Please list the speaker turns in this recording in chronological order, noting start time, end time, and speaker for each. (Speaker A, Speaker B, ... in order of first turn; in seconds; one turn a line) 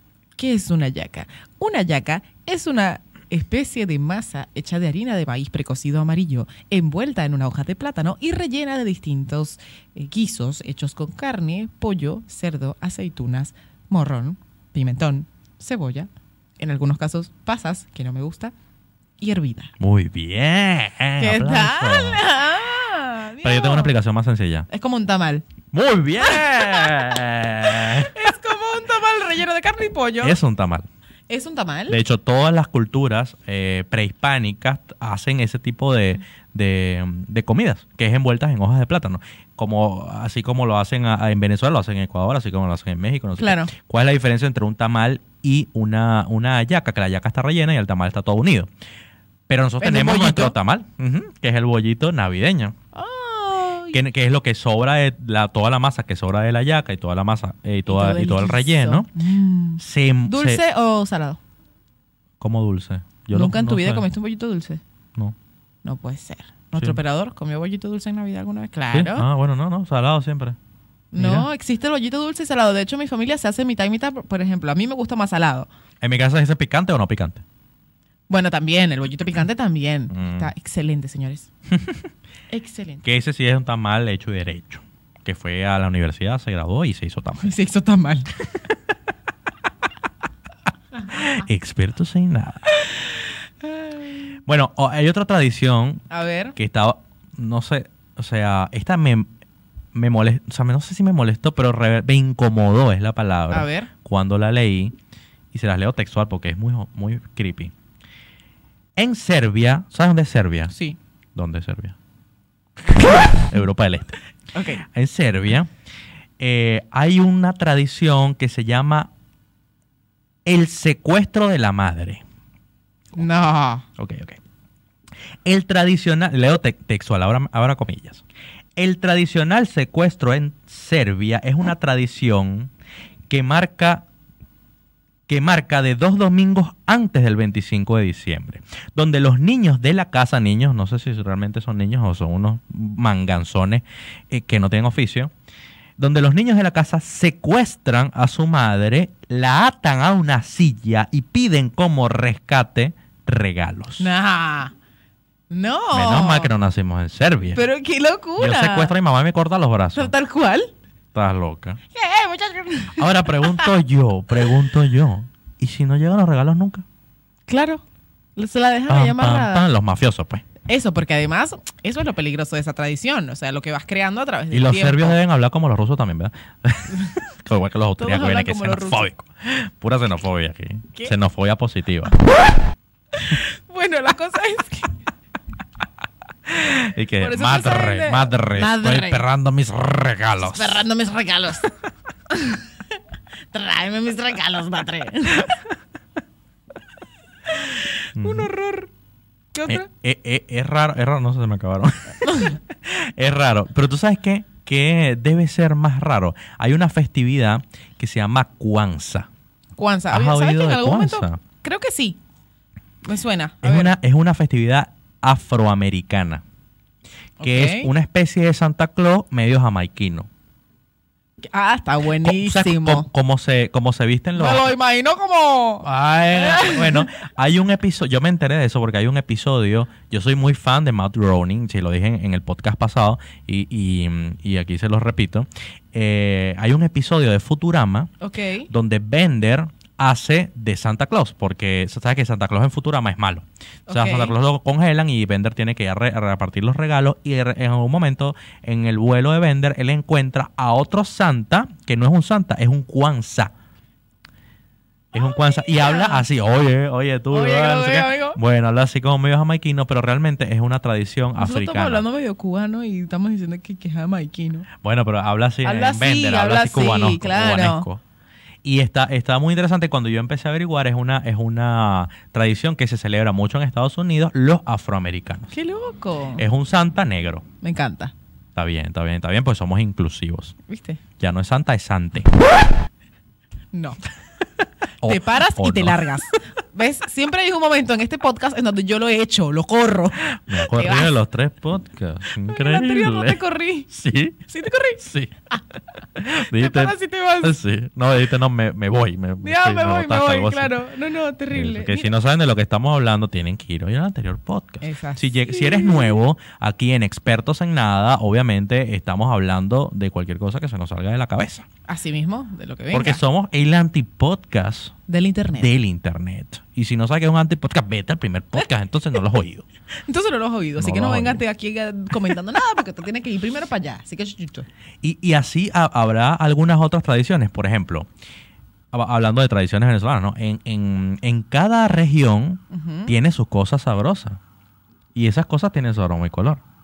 Speaker A: 0.4-18.5
Speaker A: 19.2-19.7
Speaker B: 19.8-22.3
Speaker A: 21.2-23.9
Speaker B: 23.4-24.7
Speaker A: 24.7-25.4
Speaker B: 25.7-28.2
Speaker A: 26.2-30.4
Speaker B: 30.2-30.9
Speaker A: 31.3-32.0
Speaker B: 31.9-48.7
Speaker A: 43.4-43.7
Speaker B: 49.5-52.8
Speaker A: 49.8-50.6
Speaker A: 52.9-54.0
Speaker B: 53.9-59.1
Speaker A: 57.9-61.4
Speaker B: 59.8-60.6
Speaker B: 62.4-64.0
Speaker A: 63.3-64.8
Speaker A: 65.8-69.3
Speaker B: 68.9-70.6
Speaker A: 71.1-75.7
Speaker B: 71.2-71.5
Speaker B: 76.0-77.4
Speaker A: 78.3-81.5
Speaker B: 80.1-80.5
Speaker B: 81.7-82.0
Speaker A: 82.5-83.0
Speaker B: 83.0-87.6
Speaker A: 87.4-88.3
Speaker B: 91.1-92.8
Speaker A: 93.8-94.1
Speaker B: 94.5-99.3
Speaker A: 96.1-96.6
Speaker B: 99.9-105.0
Speaker A: 103.5-103.9
Speaker B: 105.5-107.7
Speaker B: 109.0-110.7
Speaker A: 110.7-111.0
Speaker B: 111.3-112.0
Speaker B: 112.9-114.2
Speaker A: 113.1-113.4
Speaker A: 114.5-114.8
Speaker B: 114.8-115.7
Speaker B: 116.4-119.1
Speaker B: 120.5-122.2
Speaker A: 123.2-123.8
Speaker B: 124.0-124.4
Speaker B: 125.5-128.2
Speaker B: 128.8-132.7
Speaker B: 133.3-134.1
Speaker B: 135.3-145.3
Speaker B: 146.0-154.1
Speaker A: 154.0-154.7
Speaker A: 155.5-156.5
Speaker B: 155.9-157.6
Speaker A: 157.5-158.9
Speaker B: 158.4-160.1
Speaker A: 159.9-160.7
Speaker B: 161.1-161.8
Speaker A: 161.9-163.7
Speaker B: 163.0-166.8
Speaker A: 167.5-167.8
Speaker A: 168.4-169.7
Speaker B: 168.9-170.5
Speaker A: 170.7-175.2
Speaker B: 174.5-182.1
Speaker A: 178.0-179.1
Speaker A: 183.1-185.0
Speaker B: 186.5-190.9
Speaker A: 187.2-189.2
Speaker A: 190.4-191.7
Speaker A: 192.3-192.7
Speaker A: 193.5-195.7
Speaker A: 197.5-198.9
Speaker B: 198.2-198.5
Speaker A: 199.5-199.9
Speaker B: 199.7-209.3
Speaker A: 202.2-202.6
Speaker A: 209.8-212.2
Speaker B: 210.1-211.4
Speaker A: 213.1-213.9
Speaker B: 213.6-216.4
Speaker A: 217.4-217.9
Speaker B: 217.4-220.3
Speaker A: 221.4-223.1
Speaker B: 222.2-224.7
Speaker A: 224.4-227.1
Speaker B: 225.8-238.1
Speaker A: 238.2-238.7
Speaker B: 238.7-253.5
Speaker A: 243.9-244.3
Speaker B: 255.1-262.0
Speaker A: 255.1-256.3
Speaker A: 257.3-258.4
Speaker A: 261.4-264.7
Speaker B: 264.8-268.0
Speaker A: 265.6-267.9
Speaker B: 268.6-275.5
Speaker A: 275.5-276.4
Speaker B: 276.4-277.4
Speaker A: 277.6-278.1
Speaker B: 278.6-280.6
Speaker A: 280.7-281.0
Speaker B: 281.2-282.3
Speaker A: 283.7-284.0
Speaker B: 285.0-286.1
Speaker A: 285.0-291.1
Speaker B: 290.4-294.4
Speaker A: 292.5-293.9
Speaker A: 294.5-295.0
Speaker B: 295.0-295.4
Speaker B: 296.1-300.7
Speaker A: 296.4-297.6
Speaker A: 299.4-302.1
Speaker B: 301.5-311.7
Speaker A: 304.8-306.2
Speaker A: 311.9-313.2
Speaker B: 312.9-314.9
Speaker A: 315.1-315.7
Speaker B: 315.6-319.7
Speaker A: 320.0-324.7
Speaker B: 320.8-321.4
Speaker B: 325.0-328.1
Speaker B: 328.9-334.4
Speaker A: 332.7-333.1
Speaker B: 335.1-336.6